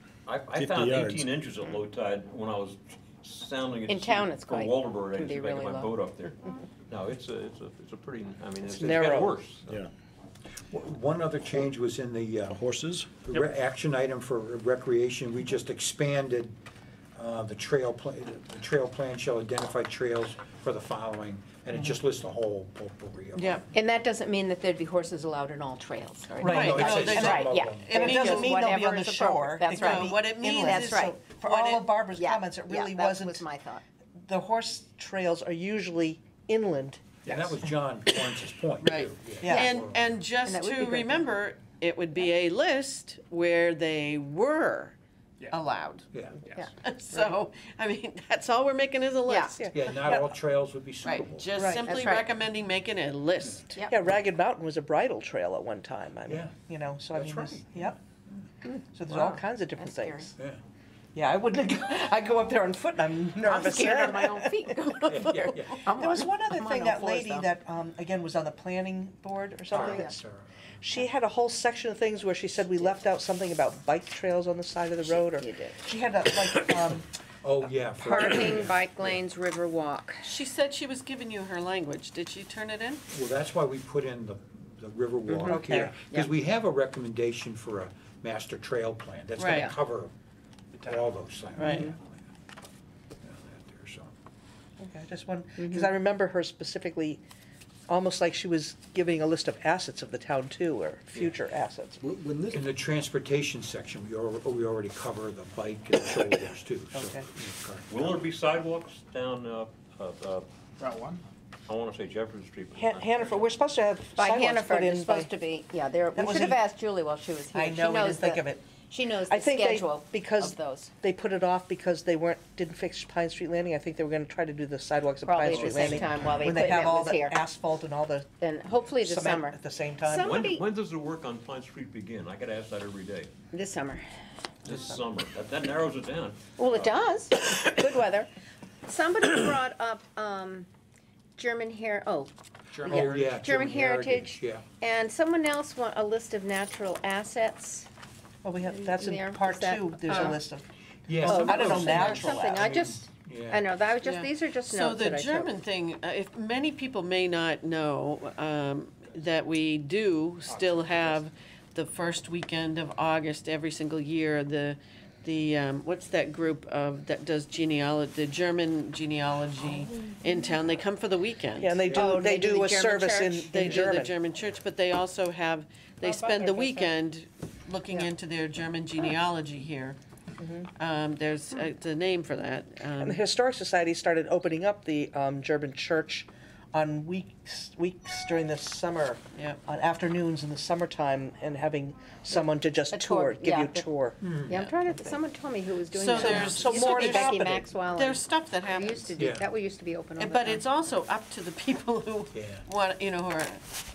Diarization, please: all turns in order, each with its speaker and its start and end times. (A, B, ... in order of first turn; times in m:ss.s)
0:00.3-0:06.4 A
0:00.6-0:01.3 B
0:03.9-0:05.9 C
0:06.9-0:09.7 A
0:08.7-0:09.4 D
0:10.7-0:12.6 E
0:12.5-0:13.1 B
0:13.2-0:16.6 E
0:17.2-0:23.6 E
0:23.4-0:23.6 F
0:23.7-0:33.8 C
0:26.4-0:28.1 E
0:26.4-0:33.4 D
0:26.4-0:28.6 F
0:29.7-0:31.8 F
0:34.2-0:37.7 D
0:37.2-0:40.2 E
0:38.8-0:45.0 F
0:39.4-0:39.7 D
0:40.4-0:41.3 C
0:45.5-0:46.1 F
0:46.1-0:46.5 E
0:46.8-0:49.8 F
0:49.3-0:49.5 C
0:49.6-0:50.3 D
0:49.7-0:51.5 E
0:51.0-0:53.7 F
0:51.6-0:51.9 D
0:51.9-0:52.3 C
0:53.7-0:54.0 C
0:53.9-0:58.0 D
0:56.3-0:56.5 E
0:57.1-0:57.9 E
0:58.7-1:00.3 C
0:58.9-1:00.3 D
1:01.1-1:10.2 D
1:03.4-1:07.5 C
1:05.1-1:05.9 E
1:09.7-1:10.4 E
1:09.7-1:10.1 C
1:10.8-1:17.0 D
1:15.0-1:15.8 C
1:17.4-1:19.2 E
1:18.0-1:20.2 C
1:20.2-1:23.0 F
1:23.1-1:30.1 E
1:25.3-1:26.3 C
1:25.5-1:25.9 D
1:29.4-1:29.7 F
1:29.4-1:29.7 C
1:30.7-1:31.2 G
1:30.8-1:32.1 E
1:31.6-1:31.9 F
1:31.6-1:31.9 C
1:33.2-1:34.1 E
1:34.8-1:37.2 D
1:35.6-1:35.9 C
1:37.9-1:42.0 D
1:42.0-1:42.8 B
1:42.5-1:48.3 E
1:46.9-1:47.2 D
1:47.9-1:50.4 A
1:50.8-1:51.2 G
1:51.7-1:53.5 A
1:52.8-1:55.3 D
1:54.2-2:00.9 C
1:56.1-1:56.6 D
1:57.5-1:58.6 D
1:59.3-2:08.3 D
2:05.3-2:07.4 C
2:08.4-2:10.7 C
2:09.0-2:10.4 D
2:10.1-2:13.3 A
2:13.5-2:14.0 C
2:14.6-2:16.9 A
2:16.6-2:18.3 C
2:18.9-2:20.7 C
2:21.4-2:22.3 C
2:22.7-2:24.6 E
2:22.8-2:23.3 G
2:22.8-2:27.9 C
2:28.4-2:32.6 D
2:28.7-2:30.4 C
2:31.1-2:33.7 E
2:31.2-2:35.5 C
2:34.0-2:51.8 F
2:40.4-2:41.2 G
2:51.6-2:54.1 D
2:51.8-2:52.2 E
2:51.9-2:54.0 C
2:53.5-3:00.0 F
2:56.0-2:56.9 C
3:00.4-3:00.7 D
3:00.8-3:03.2 F
3:03.0-3:14.2 D
3:12.9-3:13.9 C
3:14.2-3:14.7 E
3:14.5-3:20.6 C
3:15.9-3:19.1 F
3:16.2-3:17.7 D
3:19.2-3:19.5 E
3:20.2-3:23.7 F
3:22.3-3:22.6 E